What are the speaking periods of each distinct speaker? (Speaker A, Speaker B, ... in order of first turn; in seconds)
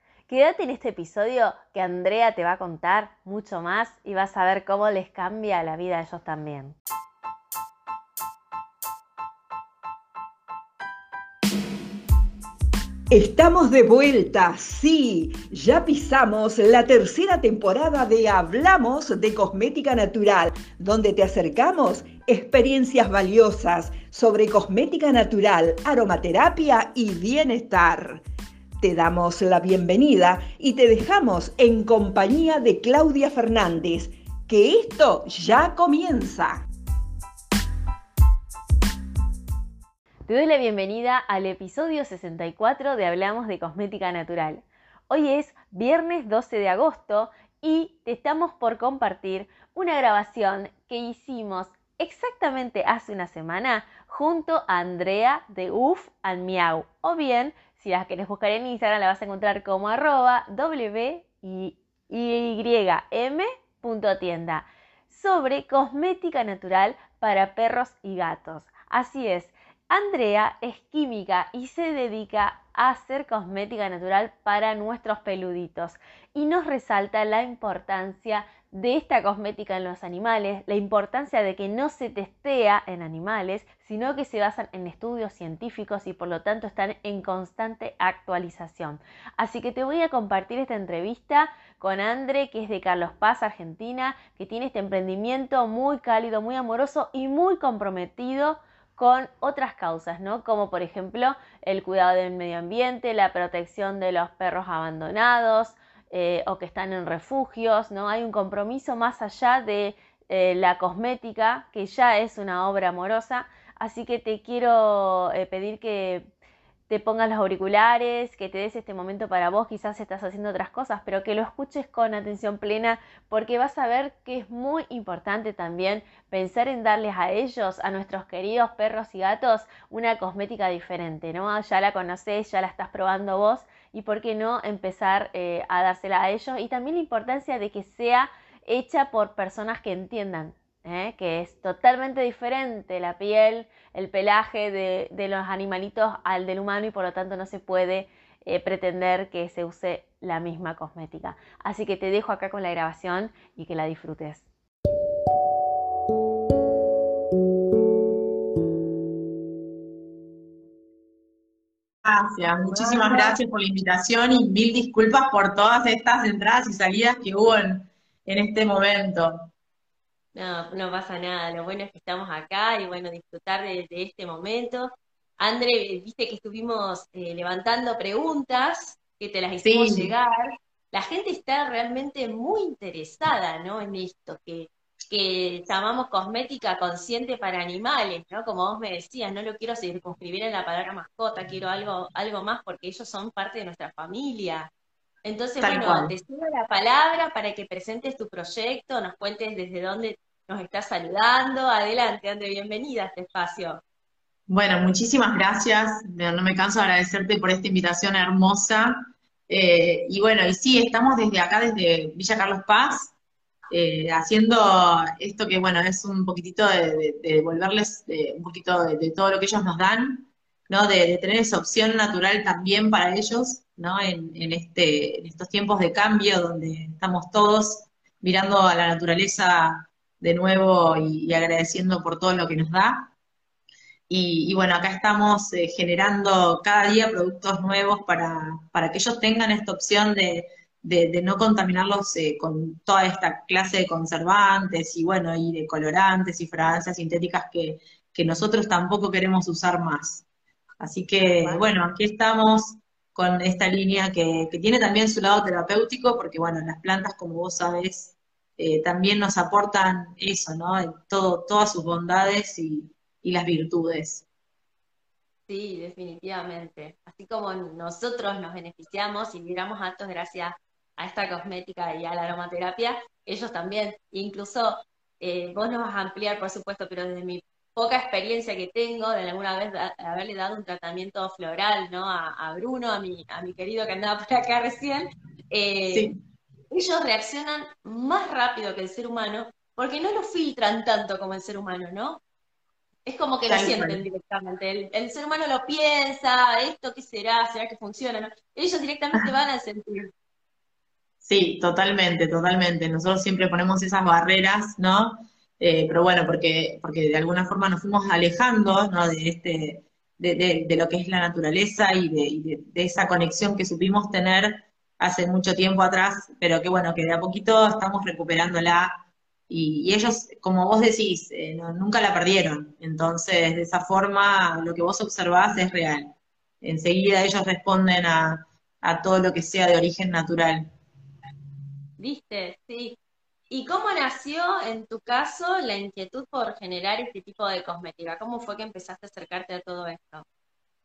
Speaker A: 0.3-6.8, 40.3-116.3, 116.9-154.4, 162.7-163.4, 170.3-194.7, 195.2-203.8, 251.2-251.7, 265.5-286.1, 286.7-292.2, 293.1-300.1, 332.0-333.0, 333.5-340.2
Speaker B: 13.1-28.2, 28.8-36.6
Speaker C: 162.0-169.5, 179.6-180.1, 195.6-196.1, 204.5-209.0, 209.5-213.1, 213.7-233.1, 234.1-250.2, 250.8-264.2, 285.9-286.2, 293.5-294.0, 301.2-330.7